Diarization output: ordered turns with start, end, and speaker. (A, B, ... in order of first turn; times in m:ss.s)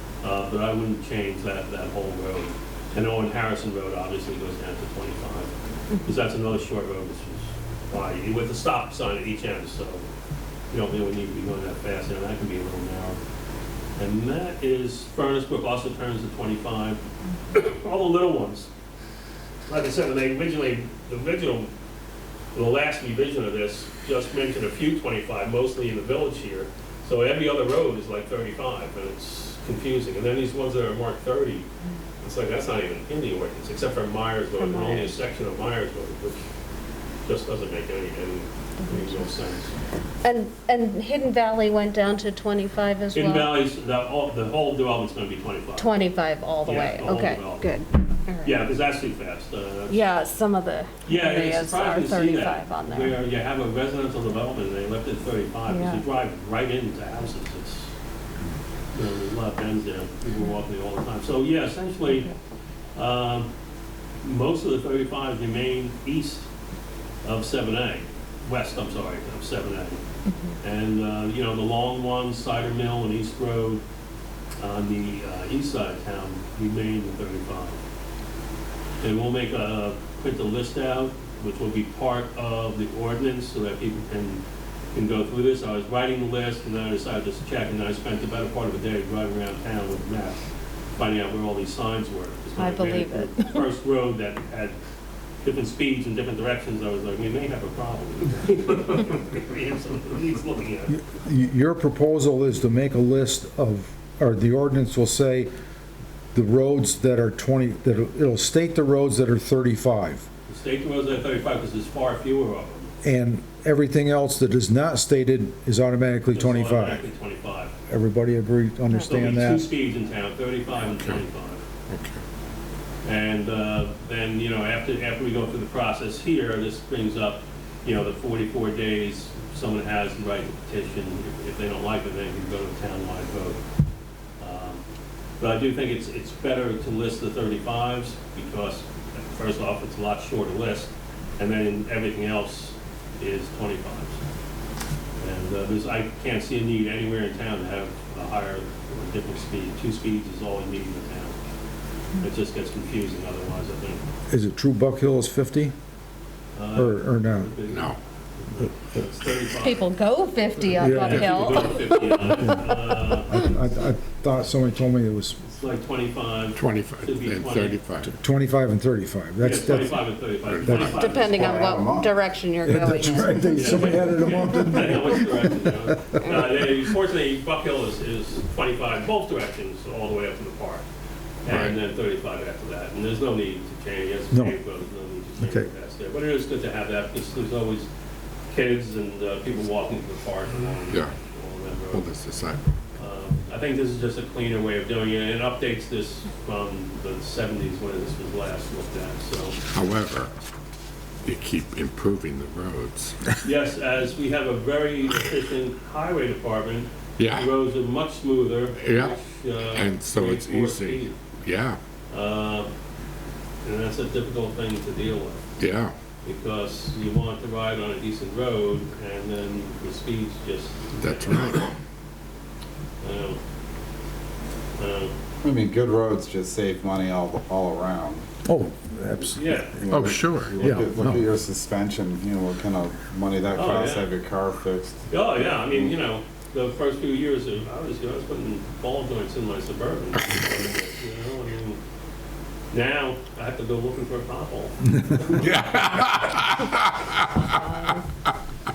0:00.2-0:05.5 A
0:06.0-0:10.0 A
0:10.7-0:13.2 A
0:14.0-0:17.0 A
0:17.5-0:18.7 A
0:19.7-0:21.7 A
0:22.5-0:31.6 A
0:32.2-0:36.4 A
0:34.6-0:35.1 B
0:37.2-0:39.8 A
0:40.2-0:43.6 B
0:43.1-0:46.0 A
0:45.8-0:48.6 B
0:46.6-0:47.8 A
0:48.4-0:50.1 A
0:49.9-0:53.2 B
0:51.0-0:57.9 A
0:55.7-0:56.0 B
0:58.9-1:02.3 A
1:03.0-1:03.5 A
1:04.2-1:06.5 A
1:07.2-1:10.0 A
1:10.6-1:13.8 A
1:14.6-1:17.8 A
1:19.0-1:24.4 A
1:24.9-1:30.4 A
1:31.0-1:34.8 A
1:32.6-1:33.3 B
1:35.4-1:41.0 A
1:40.9-1:45.5 C
1:46.3-1:50.3 C
1:50.5-1:52.9 A
1:53.0-1:57.0 C
1:56.3-1:57.7 A
1:57.9-1:59.6 C
1:59.0-2:01.6 A
2:00.9-2:01.2 D
2:01.9-2:02.2 D
2:03.0-2:13.6 A
2:14.4-2:14.8 A
2:15.4-2:24.2 A
2:25.2-2:31.4 A
2:32.2-2:34.0 A
2:34.3-2:35.7 C
2:36.6-2:39.8 A
2:36.8-2:37.5 C
2:37.7-2:38.0 D
2:39.6-2:42.0 B
2:40.7-2:41.4 C
2:40.8-2:43.4 A
2:43.2-2:45.4 C
2:45.4-2:47.8 A
2:46.6-2:48.1 D
2:48.0-2:51.4 C
2:49.4-2:51.8 A
2:50.4-2:51.4 D
2:50.8-2:53.7 B
2:51.4-2:52.2 E
2:52.6-2:55.7 C
2:53.5-3:00.8 A
3:01.4-3:07.9 A
3:01.5-3:01.7 D
3:05.4-3:05.7 C
3:08.5-3:12.0 A
3:11.9-3:12.7 D
3:13.0-3:19.6 A
3:19.7-3:20.3 D
3:21.2-3:23.3 D
3:23.4-3:31.1 A
3:27.2-3:27.6 D
3:28.8-3:31.8 D
3:32.1-3:32.7 A
3:33.6-3:35.4 A
3:35.6-3:35.9 D
3:36.2-3:41.6 A
3:41.0-3:41.7 D
3:43.0-3:43.4 A
3:44.8-3:45.1 A
3:45.4-3:48.4 E
3:48.4-3:50.0 C
3:49.4-3:49.8 A
3:49.8-3:55.0 E
3:49.9-3:51.3 D
3:53.5-3:54.1 A
3:55.1-4:01.8 A
4:02.7-4:05.5 A
4:05.3-4:07.4 D
4:07.4-4:08.0 B